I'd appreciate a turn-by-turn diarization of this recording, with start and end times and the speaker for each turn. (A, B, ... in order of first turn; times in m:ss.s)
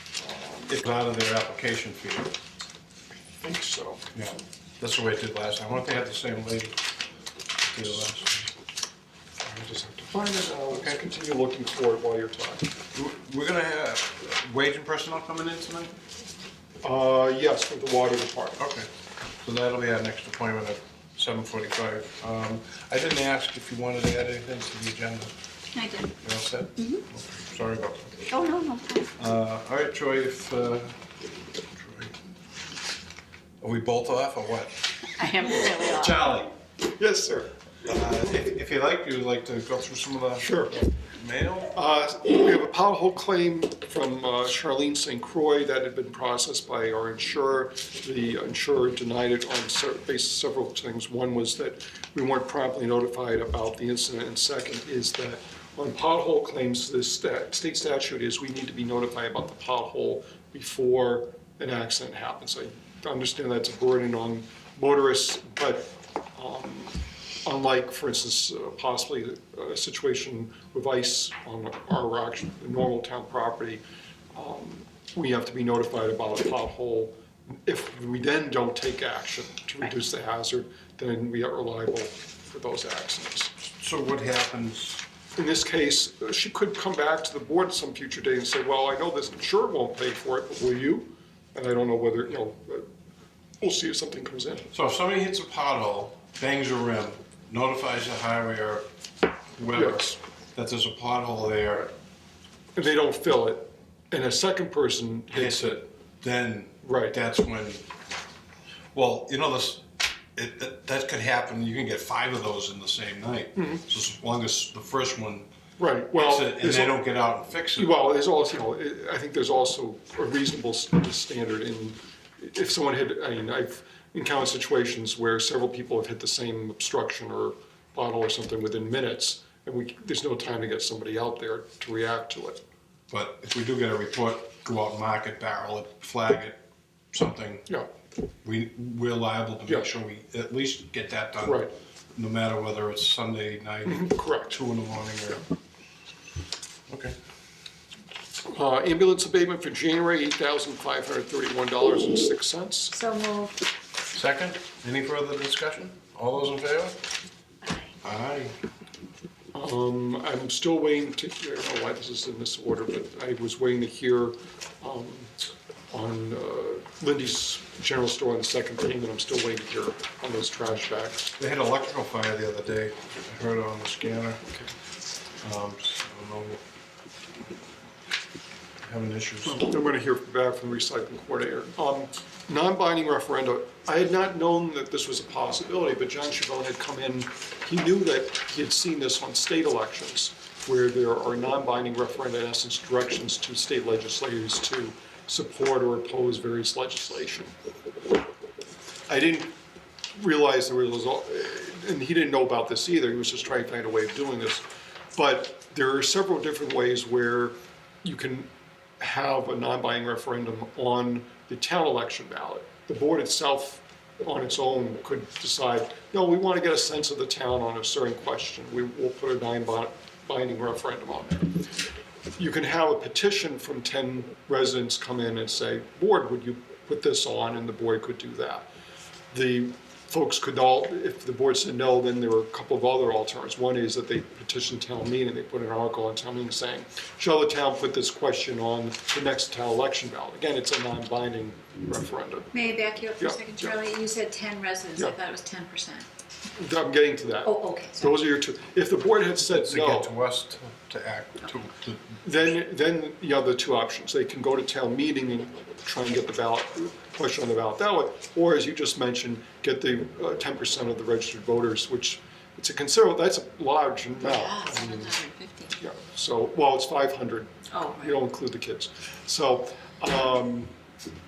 0:00.2-0:00.8 A
0:00.7-0:02.4 B
0:03.4-0:04.1 A
0:04.2-0:06.8 B
0:07.6-0:08.5 B
0:09.4-0:12.8 A
0:10.7-0:11.0 B
0:12.9-0:16.0 B
0:16.8-0:18.6 A
0:18.6-0:18.9 B
0:19.4-0:25.3 B
0:25.7-0:26.1 C
0:26.2-0:28.3 B
0:28.3-0:29.1 C
0:29.2-0:31.0 B
0:31.7-0:32.2 B
0:33.6-0:34.9 B
0:35.2-0:36.3 C
0:35.8-0:36.5 B
0:37.0-0:37.5 A
0:37.8-0:41.7 B
0:40.4-0:40.8 A
0:41.7-1:13.8 A
1:14.3-1:23.5 A
1:23.7-1:25.0 B
1:25.4-1:32.9 A
1:33.6-1:34.7 A
1:34.7-1:38.9 B
1:39.6-1:41.9 B
1:39.7-1:40.2 A
1:42.8-1:45.8 A
1:45.3-1:47.8 B
1:46.8-1:47.2 A
1:48.9-1:55.5 B
1:53.6-1:53.8 A
1:55.8-1:57.0 A
1:56.1-1:57.9 B
1:57.8-2:12.6 A
2:13.1-2:16.6 B
2:17.1-2:17.7 B
2:18.4-2:25.4 B
2:21.4-2:21.7 A
2:23.9-2:24.6 A
2:26.9-2:27.2 B
2:28.5-2:33.0 A
2:32.9-2:33.6 C
2:34.1-2:37.0 B
2:37.6-2:37.9 C
2:38.0-2:38.6 B
2:39.5-2:45.4 A
2:45.9-2:51.3 A
2:51.4-2:54.4 B
2:55.4-2:56.6 B
2:58.8-2:59.7 B
2:59.4-3:17.5 A
3:19.1-3:19.6 A
3:20.2-3:41.6 A
3:42.4-3:48.7 A
3:49.3-4:02.5 A
4:02.5-4:06.1 C
4:03.2-4:03.8 A
4:06.6-4:10.1 A
4:07.4-4:08.2 C
4:09.4-4:12.2 B
4:12.2-4:25.2 A
4:24.2-4:25.8 C
4:25.8-4:30.7 A
4:27.7-4:28.2 C